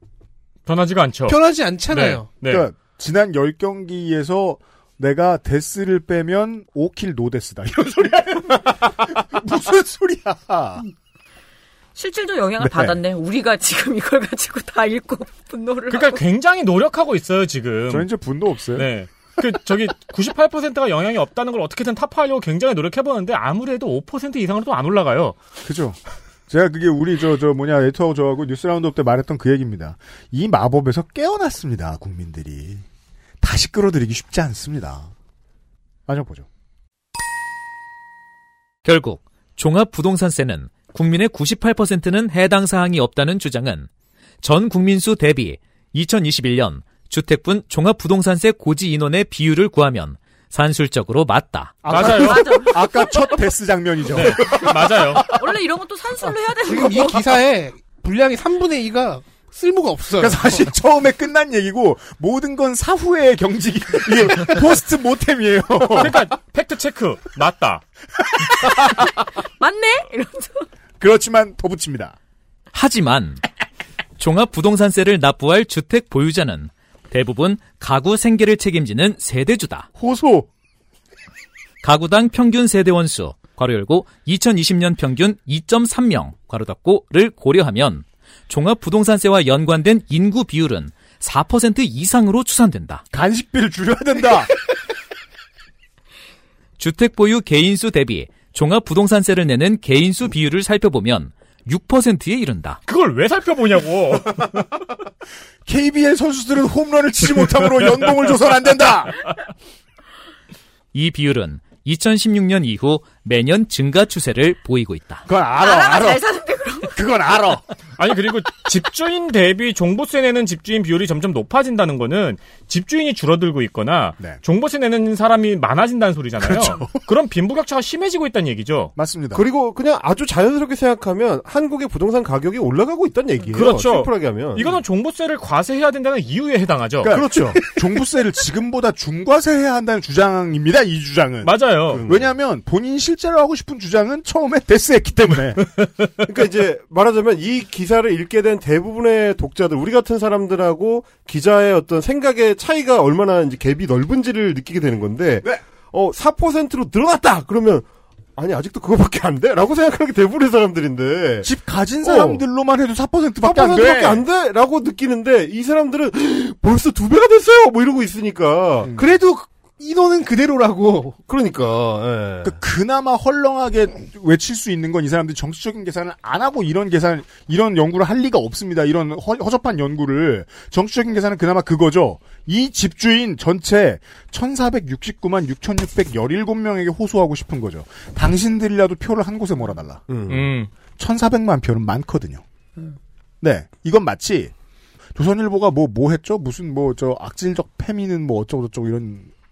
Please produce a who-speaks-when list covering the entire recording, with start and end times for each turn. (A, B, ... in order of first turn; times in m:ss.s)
0:00.6-0:01.4 A
0:01.3-0:02.2 B
0:01.9-0:02.6 A
0:02.5-0:10.8 C
0:11.9-0:16.2 D
0:12.6-0:13.0 C
0:15.9-0:18.1 A
0:17.9-0:18.9 C
0:18.7-0:25.4 A
0:25.6-0:32.8 C
0:33.4-0:35.1 C
0:36.1-0:36.4 C
0:38.8-0:43.9 E
0:44.4-0:51.9 E
0:51.8-0:55.2 C
0:51.8-0:52.6 A
0:52.1-0:53.3 D
0:54.1-0:55.3 A
0:55.3-0:57.3 D
0:56.6-1:00.7 B
1:00.2-1:06.2 C
1:05.9-1:07.8 A
1:09.6-1:10.7 D
1:11.0-1:12.2 C
1:12.7-1:13.4 E
1:14.2-1:19.9 E
1:20.0-1:20.5 C
1:21.8-1:33.0 E
1:33.1-1:34.5 C
1:36.8-1:42.8 E
1:42.9-1:44.7 A
1:45.6-1:49.2 C
1:50.9-1:55.2 E
1:55.3-1:56.2 C
1:55.6-1:56.9 D
1:56.9-1:57.6 C
1:58.0-2:08.9 A
2:06.4-2:06.9 C
2:09.0-2:09.4 C
2:09.3-2:14.8 F
2:13.5-2:17.1 A
2:17.0-2:25.6 C
2:17.1-2:17.6 F
2:21.4-2:22.0 A
2:21.9-2:22.3 F
2:26.2-2:41.5 F
2:41.4-2:44.2 C
2:42.0-2:42.4 F
2:43.4-2:48.9 F
2:48.8-2:49.1 C
2:49.0-2:51.2 B
2:51.3-2:52.5 F
2:52.4-3:10.0 C
3:10.1-3:10.5 F
3:10.3-3:10.7 A
3:11.0-3:12.4 C
3:13.4-3:14.5 C
3:15.1-3:19.3 C